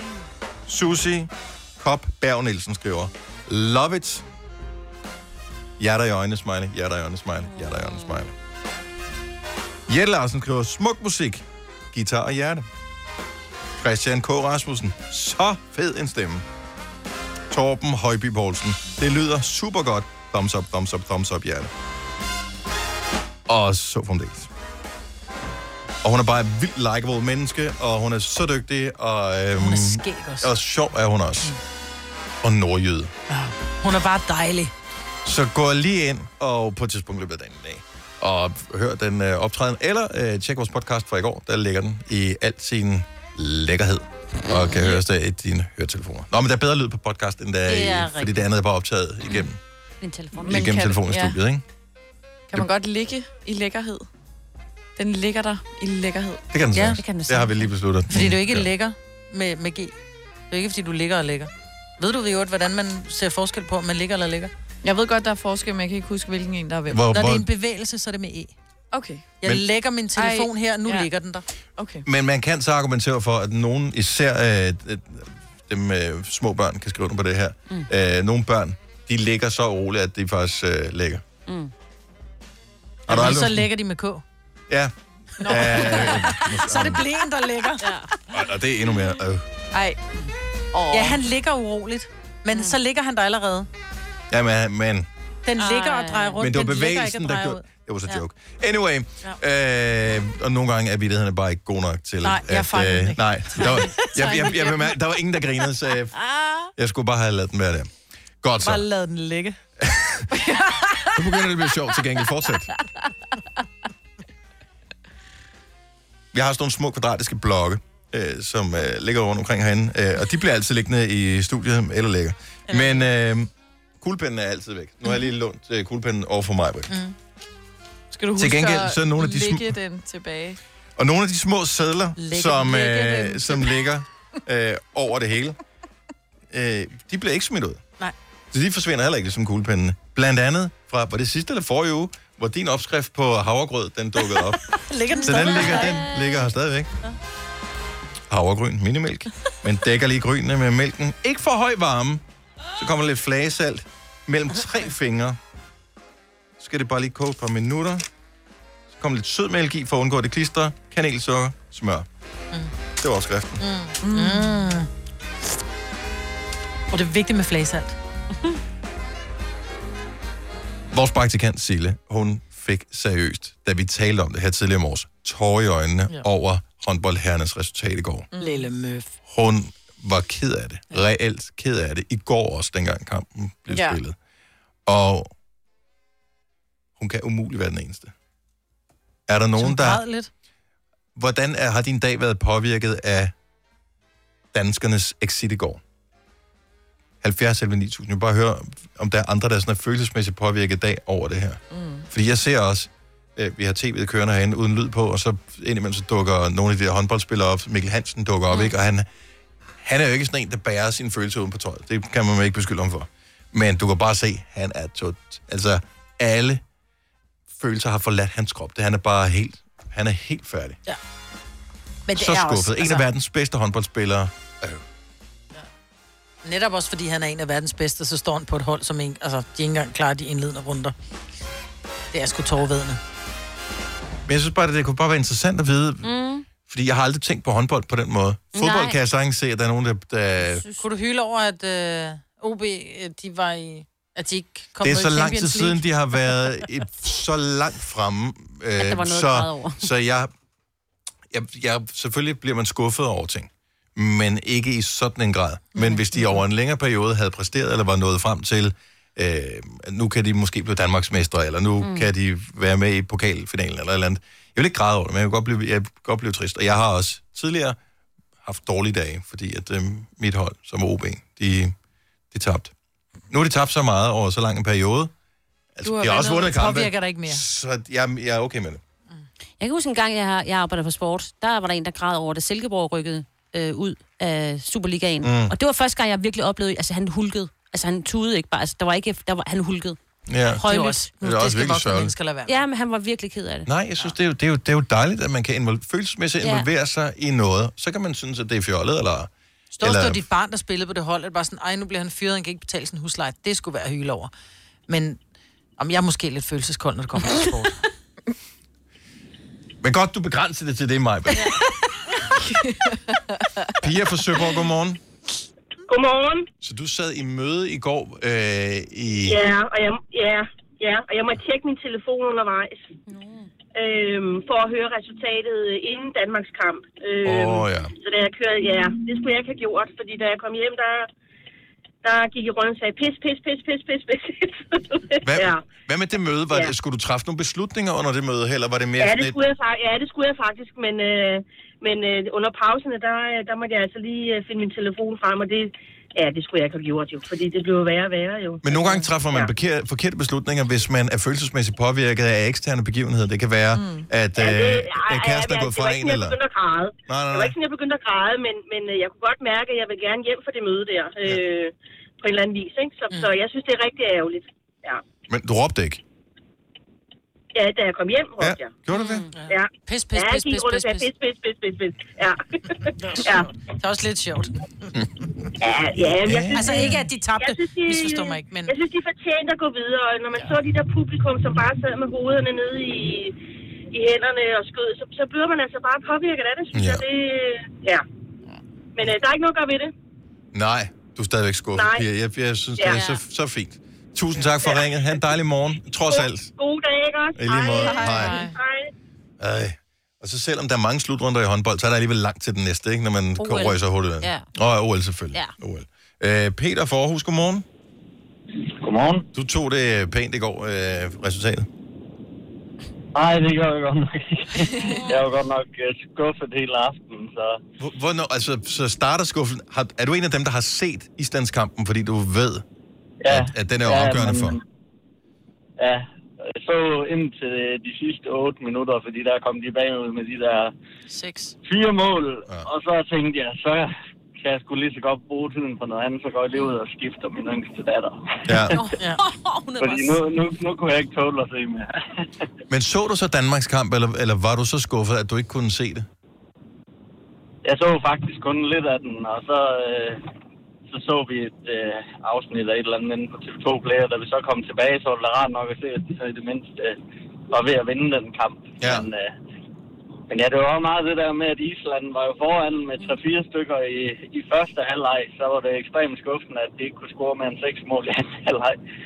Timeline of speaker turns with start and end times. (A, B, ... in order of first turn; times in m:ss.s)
0:00.7-0:04.2 A
0:05.8-0:08.3 A
0:07.5-0:08.2 B
0:09.9-0:12.6 A
0:13.8-0:16.4 A
0:17.5-0:21.7 A
0:23.5-0:24.5 A
0:26.0-0:31.6 A
0:29.6-0:30.5 C
0:32.4-0:33.1 A
0:33.3-0:34.7 C
0:35.2-0:49.6 A
0:44.5-0:44.9 B
0:47.7-0:48.5 B
0:50.0-0:50.7 B
0:50.4-0:51.4 D
0:50.4-0:51.6 A
0:52.5-0:54.1 D
0:55.0-0:56.4 D
0:56.5-0:58.7 A
0:56.7-0:57.0 C
0:58.1-0:59.9 C
1:00.5-1:04.5 C
1:04.8-1:07.1 D
1:06.9-1:07.4 A
1:07.1-1:08.5 C
1:08.9-1:09.2 D
1:09.4-1:11.4 C
1:10.2-1:11.1 D
1:11.8-1:12.0 D
1:12.0-1:21.2 A
1:21.5-1:21.7 B
1:23.1-1:23.7 A
1:23.1-1:24.2 C
1:24.7-1:27.0 A
1:25.4-1:27.9 C
1:25.5-1:25.9 D
1:27.8-1:28.1 B
1:28.3-1:29.4 A
1:29.7-1:30.0 D
1:30.7-1:31.2 D
1:30.9-1:33.7 C
1:34.3-1:35.1 A
1:35.4-1:38.2 C
1:35.6-1:36.4 B
1:36.4-1:46.2 A
1:42.2-1:44.8 C
1:46.8-1:47.9 A
1:48.4-1:48.8 A
1:48.6-1:49.6 C
1:49.8-1:50.2 A
1:51.1-1:52.7 A
1:56.3-2:06.9 A
2:02.7-2:03.0 C
2:06.9-2:07.1 C
2:08.1-2:10.6 D
2:08.4-2:09.8 A
2:11.0-2:15.6 A
2:12.2-2:13.4 C
2:16.5-2:17.8 A
2:18.5-2:24.6 A
2:24.7-2:26.0 C
2:25.2-2:26.9 A
2:25.7-2:26.4 B
2:28.3-2:32.2 A
2:32.8-2:35.4 A
2:36.6-2:38.0 A
2:38.9-2:42.0 A
2:43.0-2:43.6 A
2:43.6-2:44.9 C
2:44.0-2:44.6 D
2:46.9-2:48.0 C
2:50.9-2:58.3 A
2:58.3-2:58.7 D
2:58.4-2:59.1 C
2:59.3-3:04.2 A
3:03.7-3:04.0 D
3:04.8-3:05.3 A
3:07.0-3:08.1 A
3:09.3-3:10.0 A
3:09.6-3:10.3 C
3:11.2-3:13.3 A
3:14.5-3:15.8 A
3:17.2-3:29.1 A
3:21.7-3:22.1 D
3:29.8-3:36.6 A
3:37.5-3:40.8 A
3:42.1-3:43.0 C
3:42.1-3:44.8 A
3:46.4-3:50.9 C
3:52.1-3:53.0 C
3:54.3-3:56.1 A
3:56.0-3:56.4 B
3:56.6-4:00.6 A
3:58.5-3:59.0 B
4:00.8-4:05.8 C
4:04.8-4:10.3 A
4:08.8-4:09.8 B
4:11.3-4:27.8 A
4:21.8-4:22.1 B
4:28.4-4:31.7 A
4:32.3-4:32.7 A
4:33.3-4:35.1 A
4:35.7-4:38.8 A
4:35.8-4:36.4 D
4:36.1-4:37.4 C
4:39.6-4:50.0 B
4:45.2-4:45.5 A
4:50.3-4:50.6 A
4:50.6-4:52.6 C
4:50.6-4:51.1 B
4:51.2-4:52.1 A
4:52.5-4:53.7 B
4:53.6-4:59.3 A
4:56.4-4:56.7 B
4:59.7-5:04.3 C
4:59.8-5:00.2 A
5:04.9-5:05.2 C
5:05.8-5:07.8 C
5:09.8-5:11.5 A
5:12.3-5:13.7 D
5:13.8-5:15.0 A
5:15.9-5:16.5 E
5:16.6-5:19.4 A
5:19.3-5:22.8 E
5:23.1-5:23.5 B
5:23.7-5:31.1 E
5:27.2-5:27.9 A
5:32.0-5:35.6 E
5:35.2-5:39.4 A
5:39.0-5:49.5 E
5:48.6-5:56.4 A
5:53.7-5:54.0 D
5:54.4-6:05.0 E
5:57.1-5:57.5 A
6:03.1-6:03.3 C
6:05.3-6:06.0 A
6:07.5-6:08.8 E
6:08.4-6:09.3 A
6:08.9-6:09.3 B
6:09.3-6:11.1 C
6:09.5-6:13.5 E
6:13.0-6:14.9 C
6:15.6-6:23.4 E
6:16.0-6:17.0 A
6:16.5-6:18.8 C
6:23.9-6:28.0 E
6:26.7-6:27.0 A
6:29.0-6:29.9 E
6:30.5-6:36.5 A
6:31.7-6:32.0 E
6:32.8-6:33.2 B
6:34.6-6:34.9 E
6:36.1-6:38.9 E
6:37.4-6:38.4 A
6:37.8-6:38.5 D
6:37.8-6:38.5 C
6:39.4-6:47.6 A
6:43.4-6:44.4 B
6:48.8-6:49.2 F
6:49.3-6:51.7 A
6:53.1-6:57.6 F
6:54.7-6:55.0 D
6:57.8-7:02.6 A
7:03.2-7:04.6 F
7:03.3-7:04.6 A
7:05.8-7:10.7 F
7:11.1-7:11.5 C
7:11.6-7:18.8 F
7:18.5-7:18.7 A
7:18.8-7:20.2 B
7:18.8-7:19.2 C
7:19.8-7:22.3 F
7:22.7-7:26.1 A
7:27.6-7:30.2 F
7:30.9-7:37.0 F
7:37.5-7:39.3 F
7:38.8-7:39.0 A
7:40.3-7:48.8 F